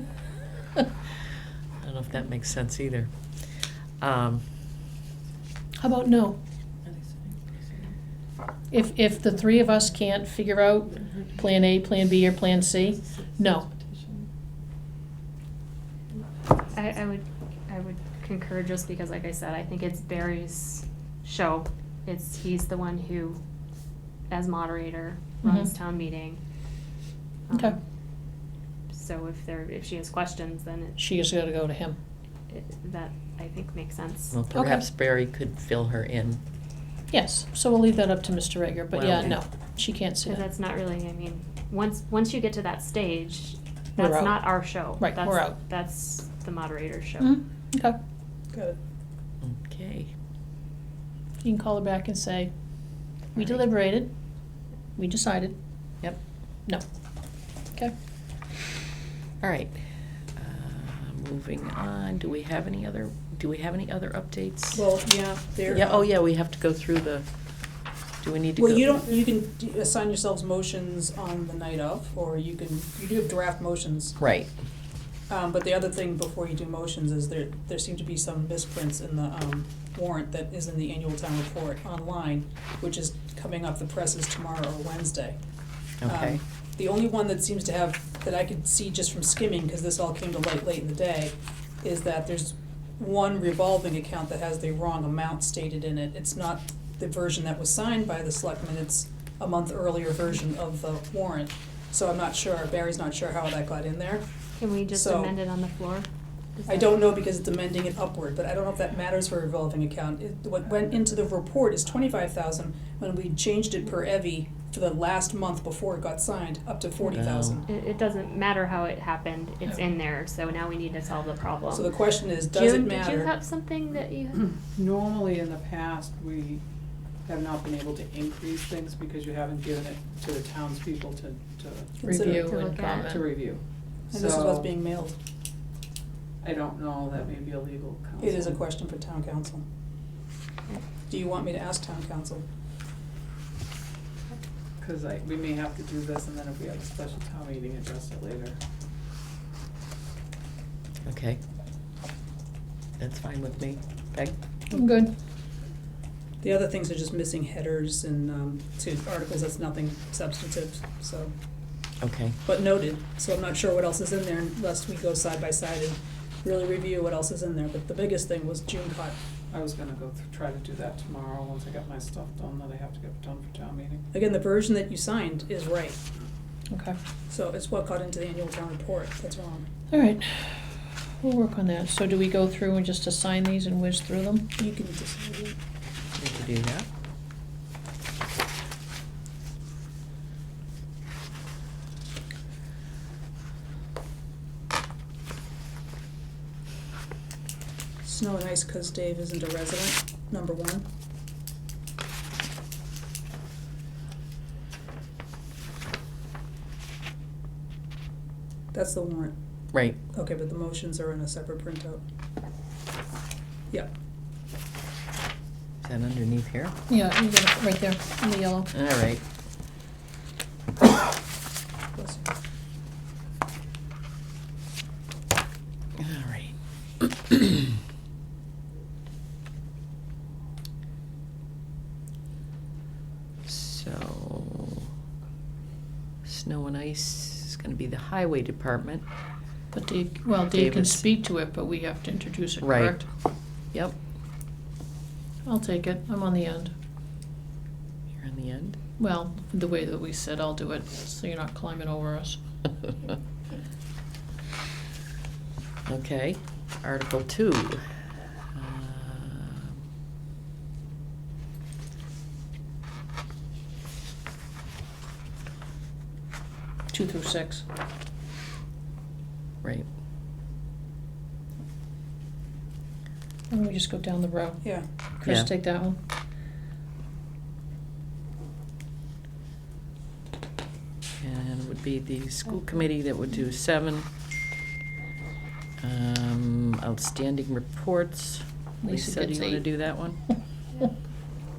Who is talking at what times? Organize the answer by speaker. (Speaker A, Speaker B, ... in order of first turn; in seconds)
Speaker A: 1.8-4.4, 34.3-36.4, 38.9-39.4, 49.4-50.1, 59.4-59.8, 60.3-64.9, 65.7-67.3, 68.2-68.9, 74.2-74.5, 86.0-86.4, 117.1-117.6, 151.1-151.4, 153.0-154.3, 162.0-162.4, 186.2-186.9, 209.7-210.0, 215.8-216.8, 218.7-219.2, 226.0-227.8, 233.5-234.8, 236.2-239.0, 240.5-241.1, 242.6-243.1, 248.2-248.8, 255.9-259.8, 275.2-275.5, 281.2-284.1, 285.8-290.2
Speaker B: 5.8-6.4, 8.7-13.7, 25.4-25.7, 31.0-32.0, 34.5-34.8, 37.1-40.5, 44.0-45.5, 47.2-48.0, 51.4-54.1, 55.0-55.5, 132.0-133.2, 154.7-155.1, 176.7-177.0, 179.9-184.6, 216.9-218.7, 239.7-243.1, 245.4-246.7, 249.0-252.4, 266.9-267.6, 273.5-276.0, 288.8-290.3
Speaker C: 13.2-14.2, 124.3-126.6, 127.2-134.7, 136.4-138.6, 144.8-148.6, 169.5-174.1
Speaker D: 16.7-23.4, 24.3-26.4, 27.5-27.8, 28.9-31.0, 32.5-34.4, 40.2-47.3, 104.6-107.0, 117.7-124.4, 132.4-133.2
Speaker E: 48.5-48.8, 64.8-66.0, 68.6-74.2, 75.3-85.4, 86.1-104.2, 104.9-105.3, 106.7-117.7, 121.7-123.3, 132.1-132.5, 134.1-135.2, 138.2-139.6, 141.1-142.4, 156.4-161.3, 162.4-169.2, 174.1-176.0, 177.3-179.7, 184.6-185.6, 198.0-200.9, 208.7-209.3, 210.1-212.0, 221.9-222.3